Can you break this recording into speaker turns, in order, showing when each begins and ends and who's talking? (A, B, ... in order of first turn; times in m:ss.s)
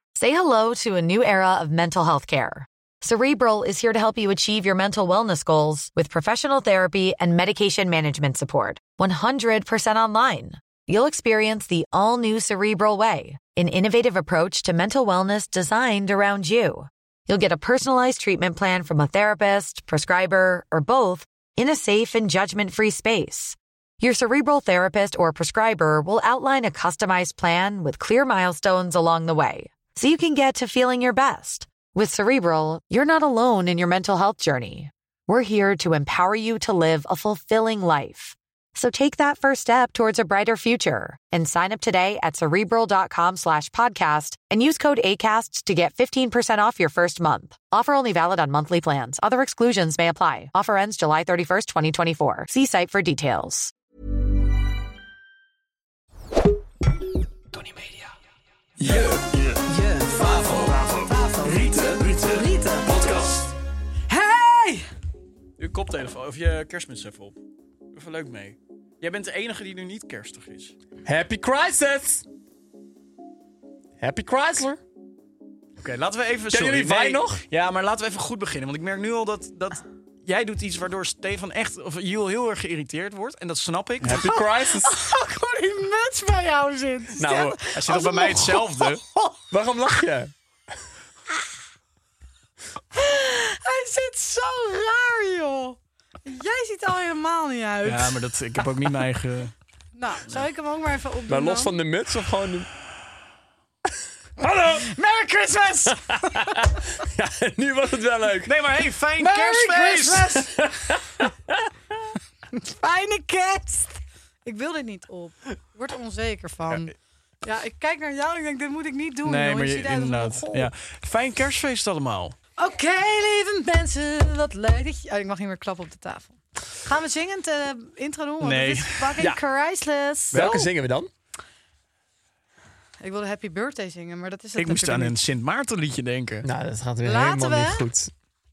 0:00.2-0:53.7 A
0:58.8-0:59.2 B
0:58.8-1:01.1 C
0:59.6-1:03.5 D
1:01.6-1:02.2 C
1:04.1-1:04.9 D
1:05.6-1:07.4 B
1:07.9-1:10.7 B
1:11.0-1:12.2 C
1:14.0-1:14.8 C
1:15.8-1:24.3 B
1:16.5-1:17.4 C
1:24.0-1:25.0 C
1:24.1-1:29.4 D
1:27.1-1:28.0 C
1:27.7-1:29.0 B
1:29.5-1:30.3 C
1:32.9-1:38.2 D
1:37.8-1:39.5 B
1:40.0-1:41.7 D
1:41.3-1:42.7 C
1:44.4-1:44.9 C
1:44.7-1:46.7 D
1:46.1-1:48.8 C
1:48.4-1:50.3 B
1:49.2-1:50.5 D
1:50.4-1:52.2 C
1:52.5-1:56.9 D
1:57.4-2:00.7 D
1:59.2-2:02.4 B
2:02.6-2:10.4 D
2:08.4-2:09.2 B
2:10.3-2:10.7 B
2:10.3-2:11.1 C
2:13.0-2:15.2 D
2:14.6-2:16.5 B
2:16.4-2:18.1 C
2:17.0-2:17.8 D